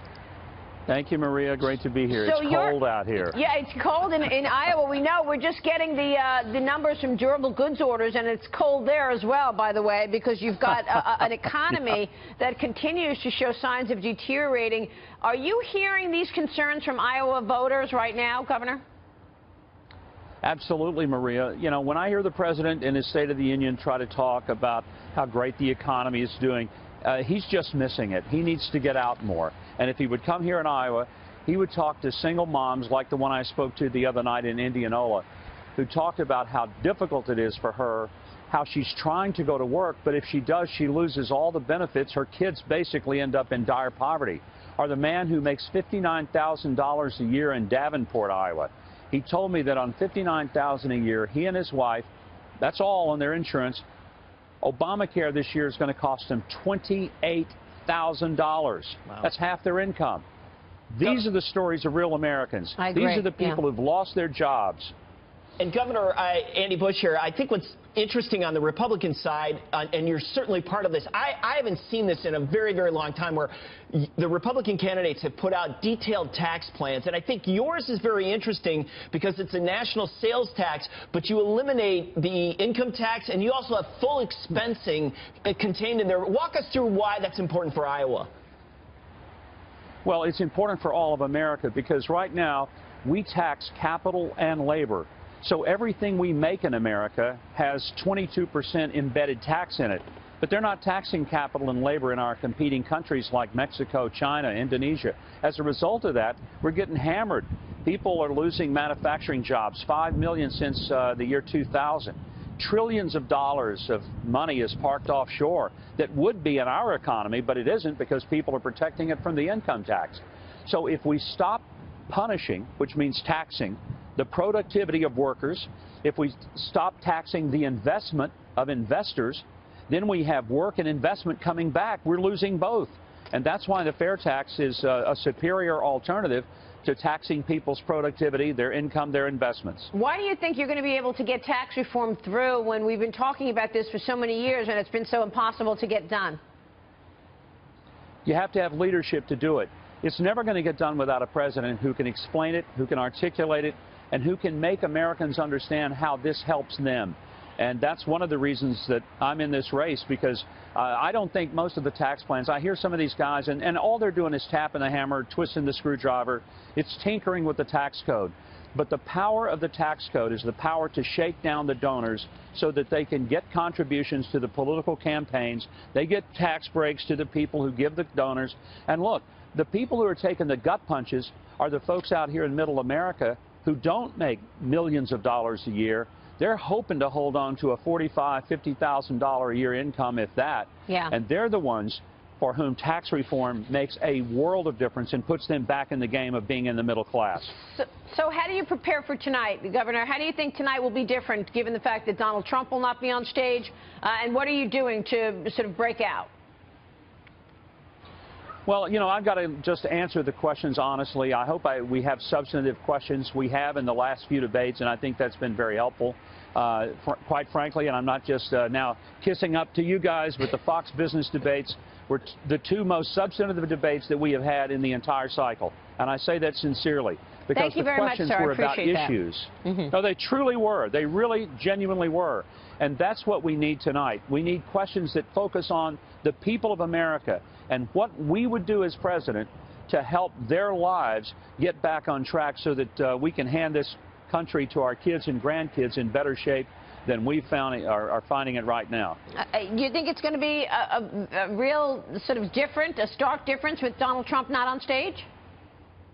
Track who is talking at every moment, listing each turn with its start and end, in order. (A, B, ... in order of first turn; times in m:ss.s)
0:00.9-0:03.4 A
0:02.1-0:18.8 B
0:20.4-0:35.2 A
0:35.8-0:52.1 A
0:52.6-0:53.8 A
0:54.6-1:00.2 A
1:00.9-1:04.9 A
1:02.8-1:03.6 B
1:05.6-1:28.3 C
1:30.0-2:19.9 A
2:19.9-2:26.4 B
2:28.2-3:17.5 A
3:10.9-3:11.1 B
3:17.6-3:26.3 B
3:28.7-4:09.2 A
3:47.5-3:49.9 B
4:09.3-4:15.3 B